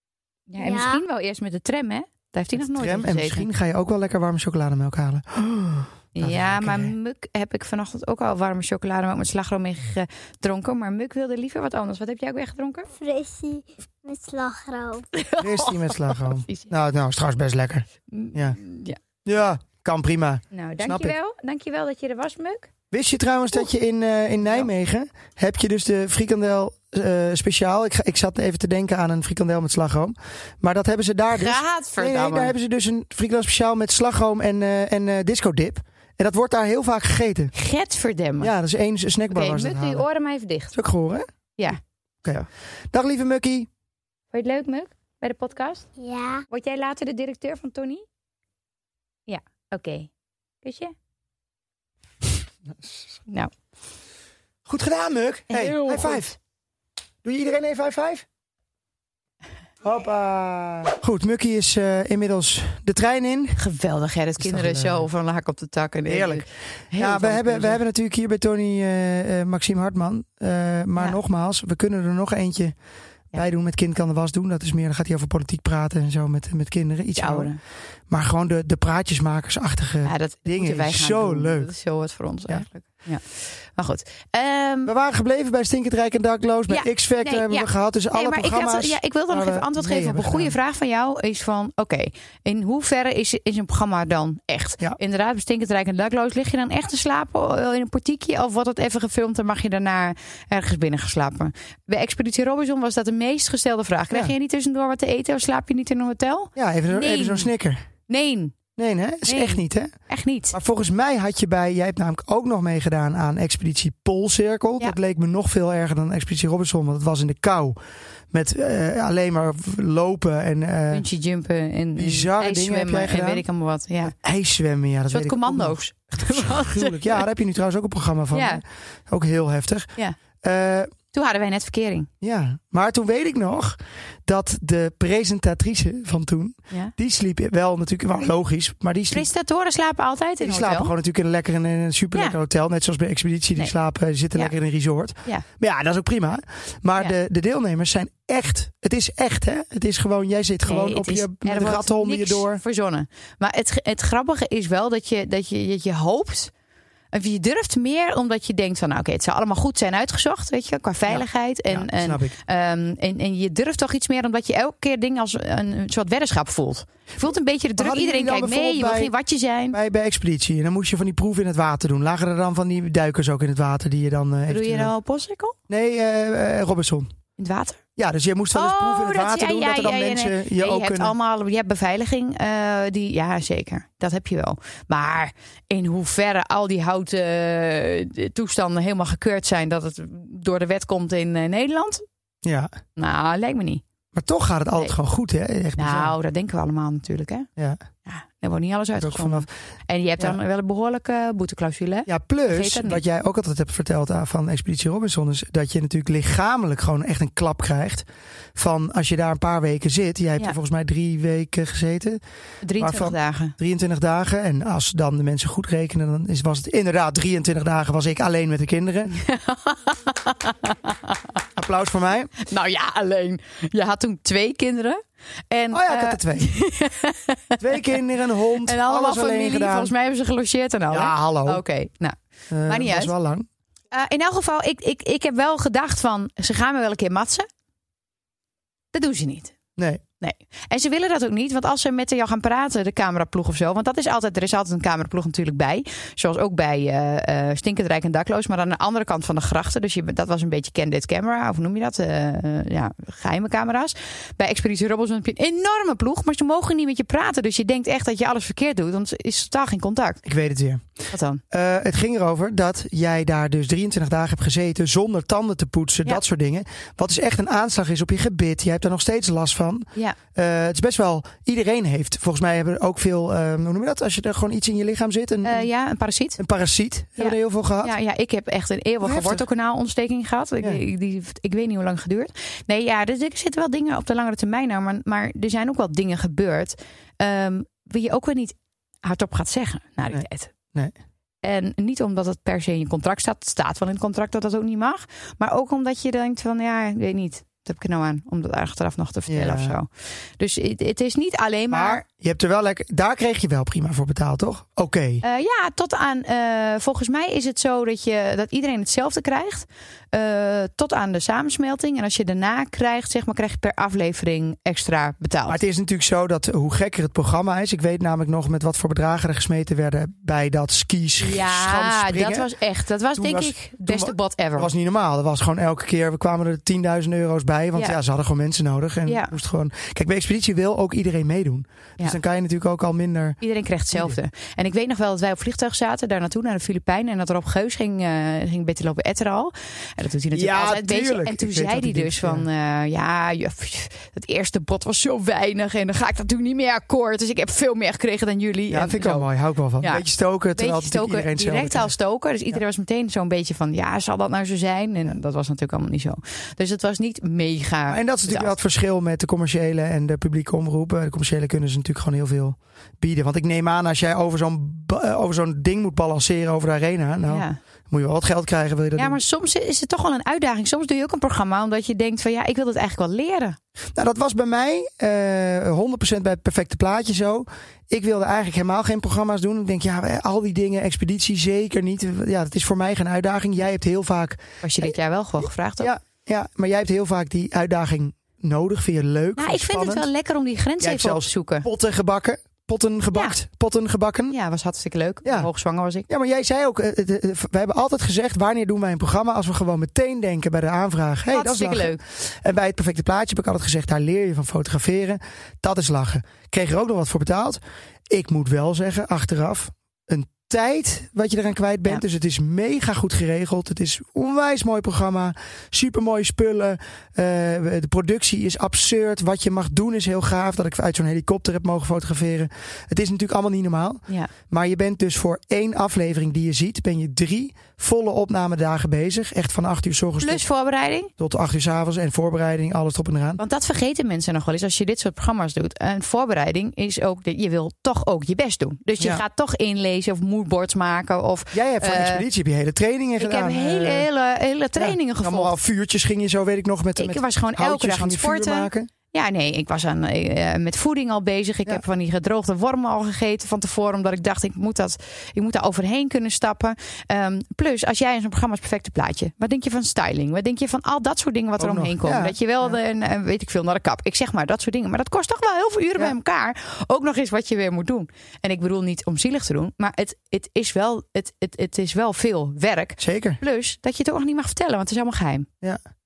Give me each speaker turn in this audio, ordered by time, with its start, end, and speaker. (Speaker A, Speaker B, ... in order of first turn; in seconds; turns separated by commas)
Speaker A: 0.5-3.5, Speaker B: 0.6-1.0, Speaker C: 2.5-6.9, Speaker A: 6.1-12.9, Speaker B: 13.0-15.1, Speaker A: 15.1-16.7, Speaker C: 15.4-18.6, Speaker A: 18.1-19.0, Speaker C: 19.2-21.1, Speaker A: 20.5-22.7, Speaker C: 22.9-37.5, Speaker A: 31.3-32.5, Speaker A: 37.5-38.5, Speaker C: 38.4-40.0, Speaker A: 39.3-40.7, Speaker C: 40.7-41.2, Speaker C: 42.2-43.7, Speaker A: 44.3-45.9, Speaker B: 46.0-46.4, Speaker A: 46.5-48.0, Speaker A: 49.3-50.1, Speaker A: 50.6-50.9, Speaker C: 54.6-56.4, Speaker A: 55.5-56.3, Speaker C: 57.2-58.2, Speaker C: 59.8-63.6, Speaker A: 63.6-67.8, Speaker C: 64.4-65.1, Speaker C: 66.1-72.7, Speaker C: 73.3-77.5, Speaker A: 77.1-77.6, Speaker C: 78.1-81.7, Speaker A: 80.0-83.2, Speaker A: 83.7-84.9, Speaker C: 84.8-90.5, Speaker A: 86.7-107.5, Speaker C: 106.5-107.8, Speaker A: 108.1-108.5, Speaker C: 108.8-109.9, Speaker A: 109.2-110.5, Speaker C: 110.5-117.8, Speaker C: 118.3-121.0, Speaker A: 120.9-124.1, Speaker C: 122.0-123.4, Speaker C: 124.0-129.9, Speaker A: 125.1-127.2, Speaker A: 128.3-128.6, Speaker C: 130.4-130.9, Speaker A: 131.1-132.1, Speaker C: 132.2-139.3, Speaker A: 139.1-140.9, Speaker C: 140.4-152.6, Speaker A: 150.6-156.5, Speaker A: 157.1-169.8, Speaker C: 161.1-162.3, Speaker C: 167.8-169.1, Speaker C: 169.7-174.9, Speaker A: 174.5-175.6, Speaker C: 175.7-177.1, Speaker A: 177.4-177.8, Speaker C: 178.0-181.1, Speaker A: 178.5-192.0, Speaker C: 192.4-192.7, Speaker A: 192.9-193.8, Speaker C: 194.1-196.1, Speaker A: 195.8-197.5, Speaker A: 198.0-203.0, Speaker C: 199.0-199.5, Speaker C: 202.1-212.2, Speaker A: 212.6-213.5, Speaker C: 212.8-219.1, Speaker A: 219.1-221.2, Speaker C: 221.6-222.3, Speaker A: 222.4-228.0, Speaker C: 225.7-226.5, Speaker C: 227.6-229.9, Speaker A: 228.6-233.1, Speaker C: 230.9-231.6, Speaker C: 232.5-233.5, Speaker A: 233.9-237.5, Speaker A: 238.9-239.5, Speaker C: 239.8-240.0, Speaker A: 240.2-260.2, Speaker C: 260.2-260.8, Speaker A: 261.1-261.4, Speaker C: 261.5-275.7, Speaker A: 275.4-276.4, Speaker C: 276.4-277.9, Speaker A: 277.2-290.5, Speaker C: 279.0-279.4, Speaker C: 290.1-290.9, Speaker A: 291.4-302.0, Speaker C: 299.3-299.8, Speaker C: 301.7-305.2, Speaker A: 305.2-315.6, Speaker C: 315.5-322.5, Speaker A: 321.2-324.7, Speaker C: 323.1-333.4, Speaker A: 329.1-329.3, Speaker A: 333.4-349.2, Speaker C: 333.9-334.2, Speaker C: 340.3-342.4, Speaker C: 348.7-351.9, Speaker A: 350.5-358.5, Speaker C: 357.9-369.2, Speaker A: 367.3-367.6, Speaker A: 368.9-373.6, Speaker C: 373.9-390.1, Speaker A: 384.6-385.9, Speaker A: 389.4-391.7, Speaker C: 390.8-394.3, Speaker A: 394.3-396.1, Speaker C: 395.2-395.5, Speaker C: 396.1-430.4, Speaker A: 401.3-402.0, Speaker A: 430.2-431.1, Speaker C: 431.2-433.4, Speaker A: 433.4-442.2, Speaker C: 441.5-444.1, Speaker A: 443.2-445.6, Speaker C: 444.8-448.9, Speaker A: 447.0-475.5, Speaker C: 461.6-462.7, Speaker C: 473.0-473.4